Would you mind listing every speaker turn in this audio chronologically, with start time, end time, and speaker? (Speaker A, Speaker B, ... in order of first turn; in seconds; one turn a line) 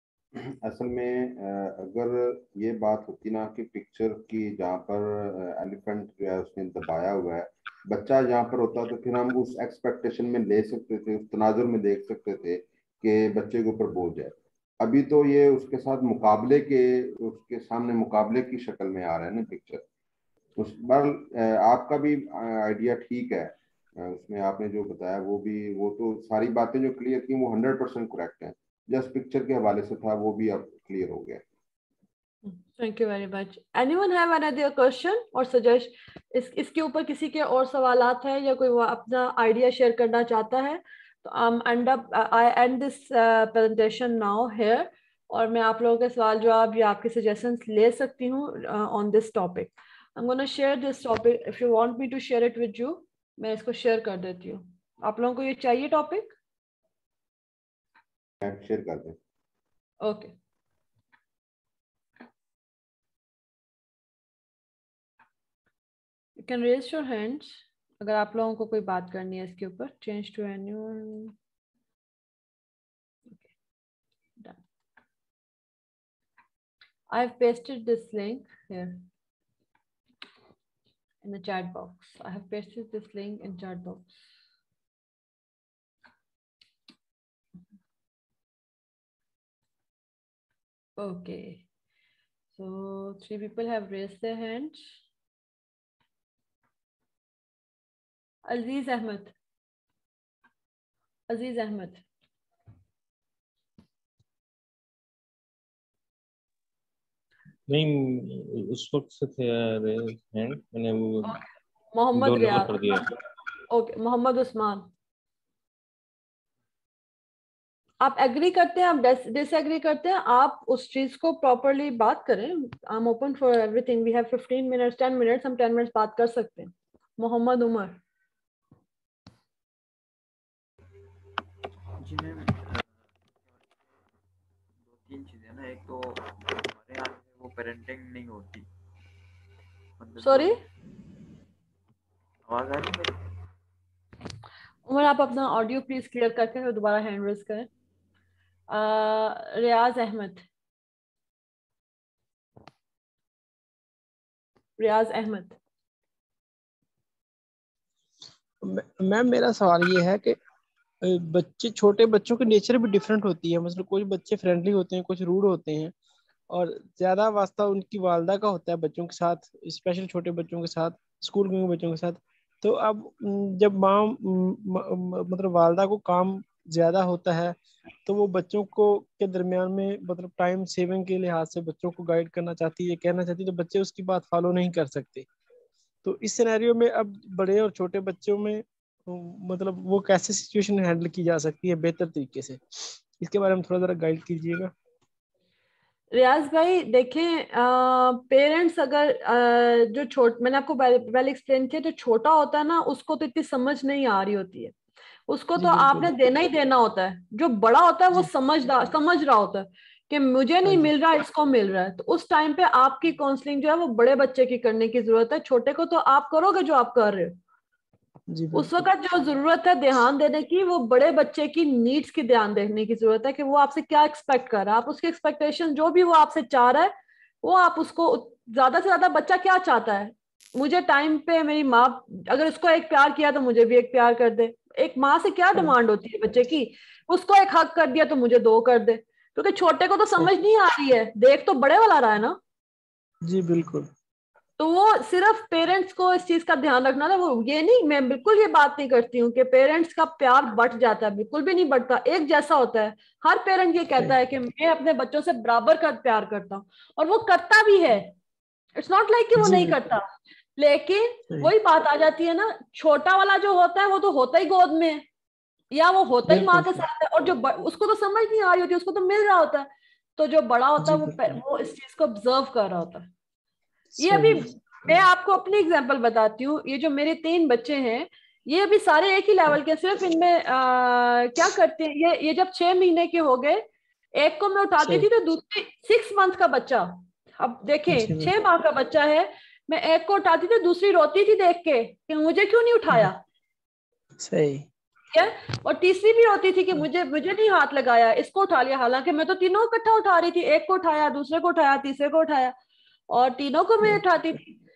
Speaker A: 0.3-19.8
Speaker A: 20.6-31.4
Speaker B: 32.5-56.4
Speaker A: 58.4-59.2
Speaker B: 60.0-60.3
Speaker B: 66.4-71.3
Speaker B: 77.1-79.0
Speaker B: 81.2-84.1
Speaker B: 91.0-91.6
Speaker B: 92.6-94.8
Speaker B: 98.5-99.3
Speaker B: 101.3-102.0
Speaker C: 107.7-111.4
Speaker B: 112.0-112.8
Speaker C: 112.1-113.1
Speaker B: 113.7-114.9
Speaker B: 118.0-128.0
Speaker D: 132.0-132.9
Speaker D: 134.8-138.7
Speaker D: 140.0-140.6
Speaker B: 140.2-140.6
Speaker D: 142.5-143.2
Speaker B: 144.9-147.7
Speaker B: 148.7-150.4
Speaker B: 154.8-155.6
Speaker E: 158.6-160.4
Speaker E: 161.0-165.9
Speaker E: 166.5-185.3
Speaker E: 186.0-194.7
Speaker B: 196.1-204.7
Speaker B: 205.3-217.3
Speaker E: 205.6-206.1
Speaker E: 210.7-210.9
Speaker E: 218.3-218.8
Speaker B: 218.5-242.4
Speaker E: 243.2-243.9
Speaker B: 244.6-258.1
Speaker B: 258.8-265.0
Speaker E: 259.4-259.8
Speaker B: 265.7-273.1
Speaker E: 266.3-266.9
Speaker E: 270.8-271.4
Speaker E: 274.0-275.0
Speaker B: 274.0-283.6
Speaker B: 284.2-293.2
Speaker E: 284.8-285.1
Speaker E: 287.9-288.3
Speaker E: 294.2-294.7
Speaker B: 295.1-302.5
Speaker B: 303.1-304.5